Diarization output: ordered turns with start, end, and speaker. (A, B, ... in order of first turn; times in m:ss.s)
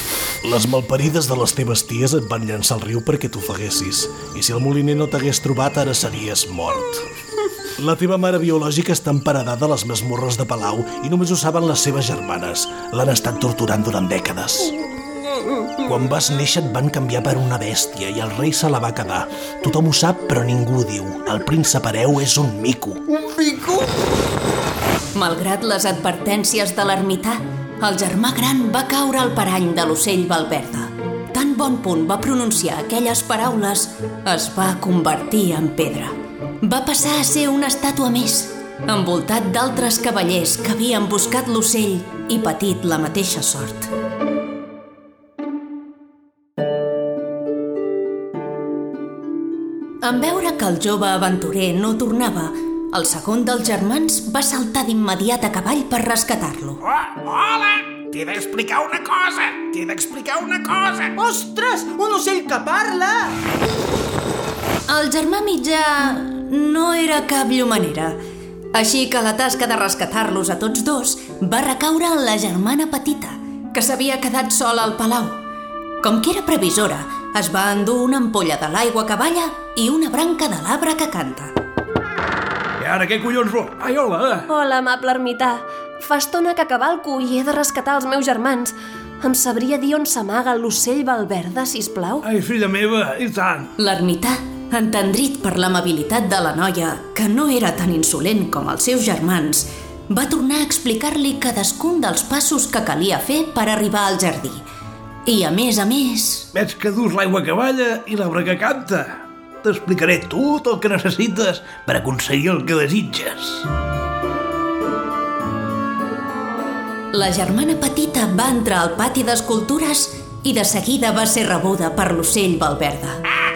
0:00.4-0:07.1 A
0:07.8-0:14.7 A
0:15.8-0:23.0 A
0:25.1-0:43.9 B
0:50.0-0:56.8 B
0:56.8-1:01.2 C
1:01.2-1:03.3 D
1:01.9-1:02.8 C
1:04.9-1:08.2 B
1:08.7-1:15.4 B
1:16.0-1:21.5 B
1:22.8-1:24.5 E
1:24.5-1:32.2 F
1:32.2-1:33.7 E
1:33.8-1:44.6 B
1:45.2-1:46.5 B
1:46.5-1:53.6 E
1:57.1-2:03.2 B